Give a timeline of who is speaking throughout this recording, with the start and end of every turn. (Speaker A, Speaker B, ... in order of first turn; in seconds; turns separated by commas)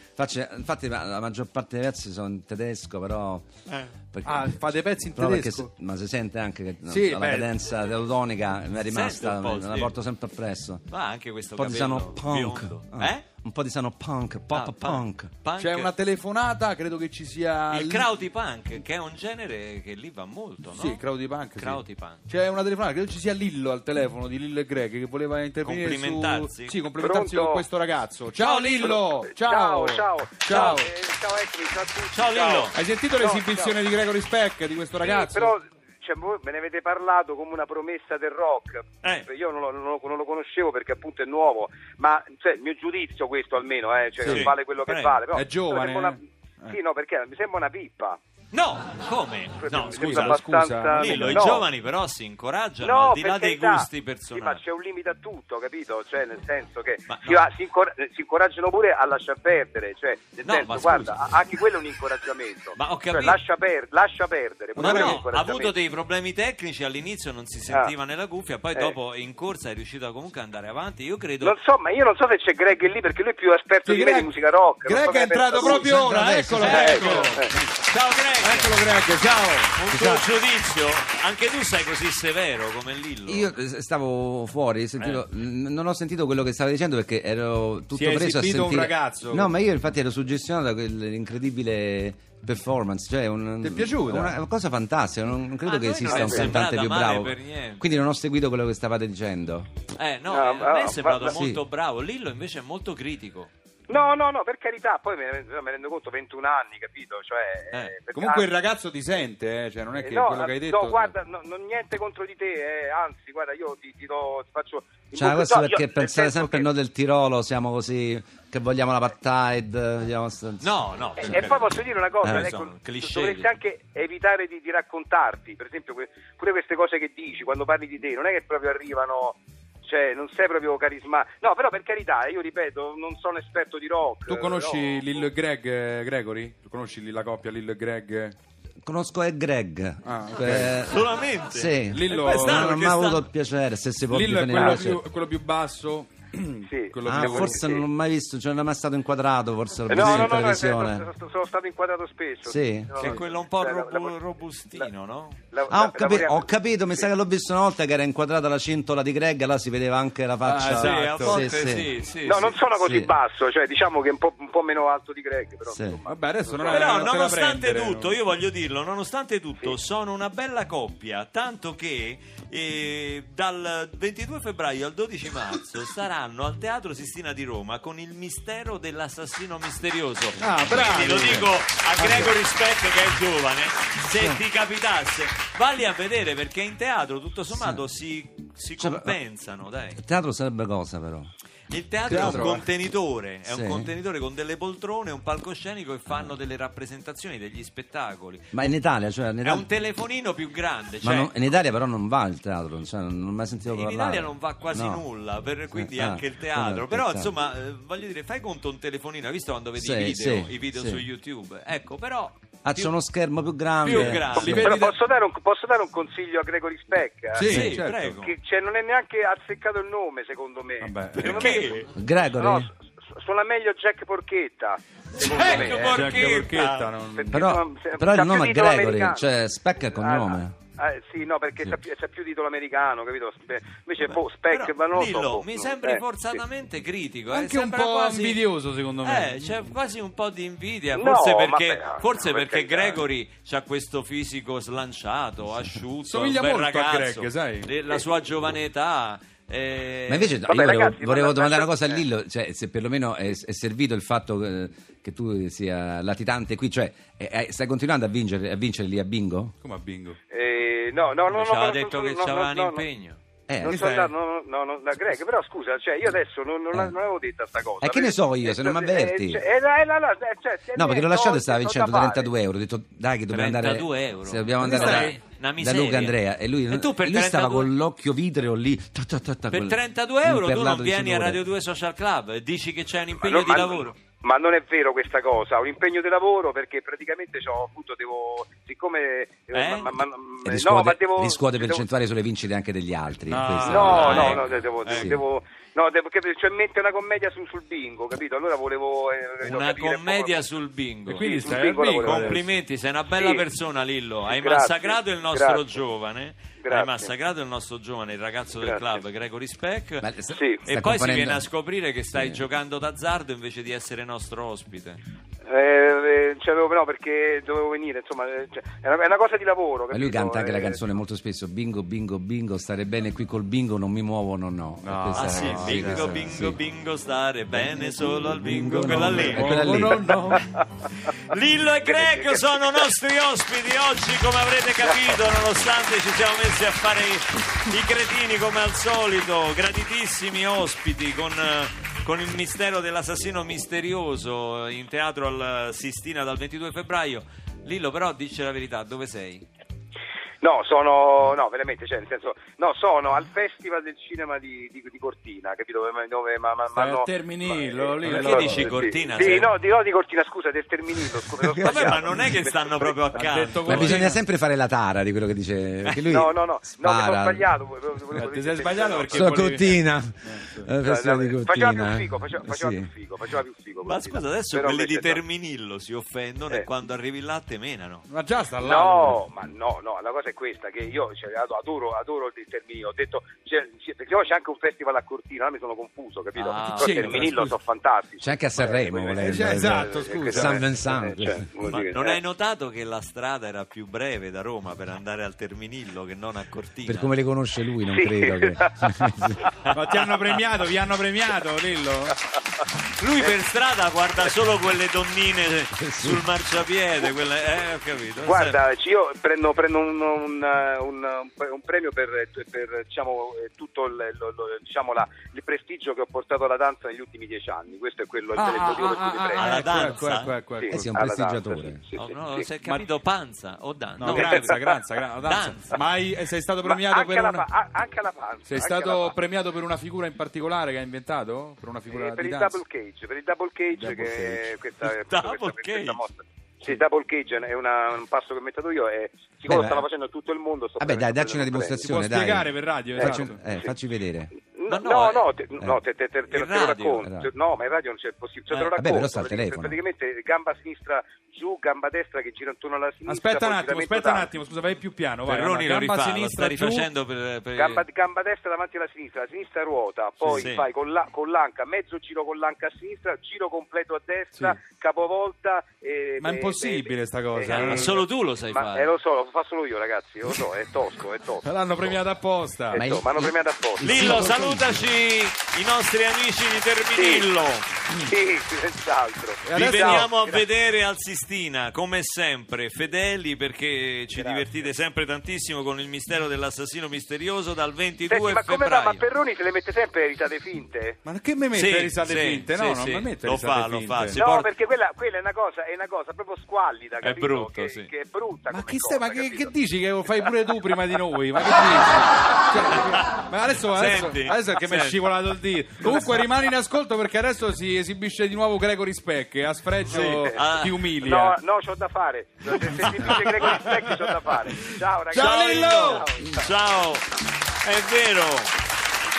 Speaker A: 0.2-3.5, Speaker A: 4.1-4.6, Speaker B: 4.2-5.7, Speaker A: 5.1-10.8, Speaker B: 6.9-7.5, Speaker C: 8.9-9.9, Speaker C: 10.9-13.2, Speaker A: 11.6-15.3, Speaker C: 14.5-15.9, Speaker B: 15.6-18.1, Speaker C: 17.7-21.0, Speaker B: 20.7-30.9, Speaker C: 21.6-22.2, Speaker C: 25.6-26.8, Speaker D: 27.0-27.6, Speaker D: 28.4-33.7, Speaker C: 32.1-32.8, Speaker B: 32.7-35.5, Speaker D: 35.0-48.2, Speaker C: 39.0-39.3, Speaker B: 44.2-44.5, Speaker C: 44.2-45.2, Speaker B: 45.3-46.8, Speaker C: 48.5-54.6, Speaker D: 49.6-51.7, Speaker B: 49.8-51.6, Speaker D: 52.8-65.7, Speaker C: 57.1-57.4, Speaker C: 60.4-61.3, Speaker C: 62.7-63.4, Speaker B: 64.8-65.2, Speaker C: 64.8-71.5, Speaker D: 71.4-75.9, Speaker B: 73.8-74.3, Speaker B: 74.8-77.6, Speaker C: 75.6-78.7, Speaker A: 76.1-76.6, Speaker D: 76.6-77.5, Speaker B: 78.4-80.2, Speaker C: 79.7-83.5, Speaker A: 83.3-99.7, Speaker B: 87.9-89.5, Speaker B: 93.6-94.3, Speaker C: 95.6-97.9, Speaker C: 100.0-103.5, Speaker D: 100.3-101.3, Speaker A: 101.3-101.6, Speaker D: 103.9-108.5, Speaker B: 108.1-111.1, Speaker D: 110.0-116.7, Speaker A: 115.1-120.7, Speaker C: 120.6-123.5, Speaker D: 121.2-135.2, Speaker A: 122.2-122.5, Speaker B: 134.3-138.3, Speaker A: 138.8-145.0, Speaker B: 140.0-140.8, Speaker C: 140.8-143.2, Speaker B: 141.9-142.9, Speaker B: 144.1-147.7, Speaker D: 146.7-147.8, Speaker A: 147.1-151.0, Speaker D: 149.9-154.1, Speaker B: 149.9-150.4, Speaker A: 152.4-153.1, Speaker C: 153.0-155.4, Speaker D: 155.5-157.1, Speaker A: 155.7-161.9, Speaker B: 160.4-161.4, Speaker C: 160.7-162.6, Speaker D: 162.2-167.1, Speaker A: 162.8-163.1, Speaker A: 165.7-166.0, Speaker B: 166.1-168.2, Speaker C: 166.7-190.0, Speaker B: 180.4-181.5, Speaker A: 182.0-182.3, Speaker B: 182.0-182.3, Speaker A: 184.1-184.4, Speaker A: 187.5-187.8, Speaker A: 188.8-189.2, Speaker A: 190.0-191.3, Speaker C: 191.7-198.7, Speaker A: 192.1-192.6, Speaker B: 192.1-192.6, Speaker A: 193.5-193.9, Speaker A: 198.5-199.7, Speaker C: 199.4-201.6, Speaker A: 201.0-205.0, Speaker C: 203.7-212.9, Speaker A: 205.7-207.3, Speaker A: 209.8-211.0, Speaker A: 212.6-214.8, Speaker C: 213.8-214.7, Speaker B: 213.9-215.0, Speaker D: 214.6-226.1, Speaker B: 217.3-218.1, Speaker A: 217.4-217.8, Speaker C: 217.4-218.3, Speaker B: 220.8-221.5, Speaker C: 221.1-221.9, Speaker A: 221.9-222.7, Speaker C: 225.2-226.9, Speaker B: 225.3-227.4, Speaker D: 227.1-229.2, Speaker A: 227.3-230.5, Speaker D: 230.0-236.4, Speaker C: 234.0-238.4, Speaker B: 237.3-239.4, Speaker C: 239.0-250.4, Speaker D: 240.9-243.0, Speaker B: 246.1-247.7, Speaker A: 250.1-259.5, Speaker D: 250.4-252.0, Speaker B: 259.6-260.2, Speaker D: 260.3-262.8, Speaker C: 261.3-263.2, Speaker A: 263.5-264.1, Speaker D: 263.6-272.3, Speaker A: 267.8-269.4, Speaker A: 270.7-281.4, Speaker C: 273.3-277.7, Speaker B: 274.6-275.1, Speaker C: 279.5-283.9, Speaker D: 283.2-291.8, Speaker C: 289.5-290.0, Speaker A: 290.4-295.2, Speaker B: 293.3-294.3, Speaker D: 293.7-300.4, Speaker C: 293.8-295.2, Speaker C: 299.4-310.1, Speaker B: 301.1-302.4, Speaker D: 301.2-302.4, Speaker D: 303.2-303.4, Speaker D: 304.3-305.7, Speaker D: 306.6-307.1, Speaker D: 308.6-309.0, Speaker A: 310.0-311.4, Speaker D: 310.4-310.6, Speaker C: 310.6-315.0, Speaker A: 312.1-312.4, Speaker D: 315.4-320.8, Speaker A: 319.9-326.6, Speaker B: 324.8-326.2, Speaker C: 325.1-329.9, Speaker A: 327.5-330.2, Speaker B: 328.5-330.5, Speaker C: 331.0-349.5, Speaker D: 331.8-332.6, Speaker D: 350.4-363.0, Speaker B: 356.7-359.4, Speaker C: 358.0-359.5, Speaker A: 361.4-362.0, Speaker C: 361.6-364.1, Speaker B: 363.1-364.2, Speaker A: 363.6-367.5, Speaker D: 366.1-369.4, Speaker B: 368.1-370.7, Speaker A: 369.1-372.9, Speaker D: 370.8-375.2, Speaker C: 373.8-378.1, Speaker B: 378.1-379.2, Speaker D: 378.6-392.2, Speaker C: 386.4-387.5, Speaker B: 386.7-387.5, Speaker A: 388.2-391.5, Speaker B: 389.2-390.7, Speaker C: 391.6-397.1, Speaker A: 396.9-399.4, Speaker D: 397.9-398.9, Speaker B: 399.7-402.2, Speaker C: 403.0-408.6, Speaker A: 405.8-406.2, Speaker D: 408.2-419.6, Speaker B: 418.3-420.8, Speaker C: 419.3-420.3, Speaker D: 420.6-422.5, Speaker A: 420.7-421.8, Speaker C: 421.9-424.6, Speaker B: 424.0-427.4, Speaker D: 424.1-424.8, Speaker C: 425.2-425.8, Speaker D: 426.6-429.1, Speaker B: 428.5-432.5, Speaker D: 431.9-441.8, Speaker B: 433.7-434.5, Speaker C: 434.9-436.0, Speaker A: 439.5-439.9, Speaker A: 440.8-444.3, Speaker B: 441.8-443.4, Speaker D: 443.0-443.7, Speaker D: 444.5-454.3, Speaker C: 444.7-445.3, Speaker C: 446.3-447.0, Speaker A: 447.0-447.3, Speaker C: 448.5-448.8, Speaker A: 448.8-449.8, Speaker B: 453.1-456.9, Speaker C: 455.3-457.8, Speaker D: 457.6-472.0, Speaker C: 460.3-460.6, Speaker B: 466.2-468.0, Speaker C: 467.5-468.9, Speaker B: 471.4-472.9, Speaker D: 472.7-474.2, Speaker A: 472.7-474.9, Speaker C: 473.8-477.6, Speaker B: 473.9-474.2, Speaker D: 476.9-477.3, Speaker D: 478.0-480.4, Speaker B: 479.4-480.1, Speaker C: 479.5-489.0, Speaker D: 484.1-484.5, Speaker D: 488.1-491.0, Speaker B: 491.0-494.2, Speaker C: 491.5-494.5, Speaker D: 494.1-499.5, Speaker C: 497.0-497.9, Speaker B: 498.5-511.4, Speaker C: 503.7-505.0, Speaker C: 509.8-510.8, Speaker D: 509.9-510.4, Speaker D: 511.0-516.5, Speaker B: 512.8-513.8, Speaker C: 512.8-513.7, Speaker B: 515.1-516.1, Speaker C: 515.1-517.0, Speaker C: 517.6-518.5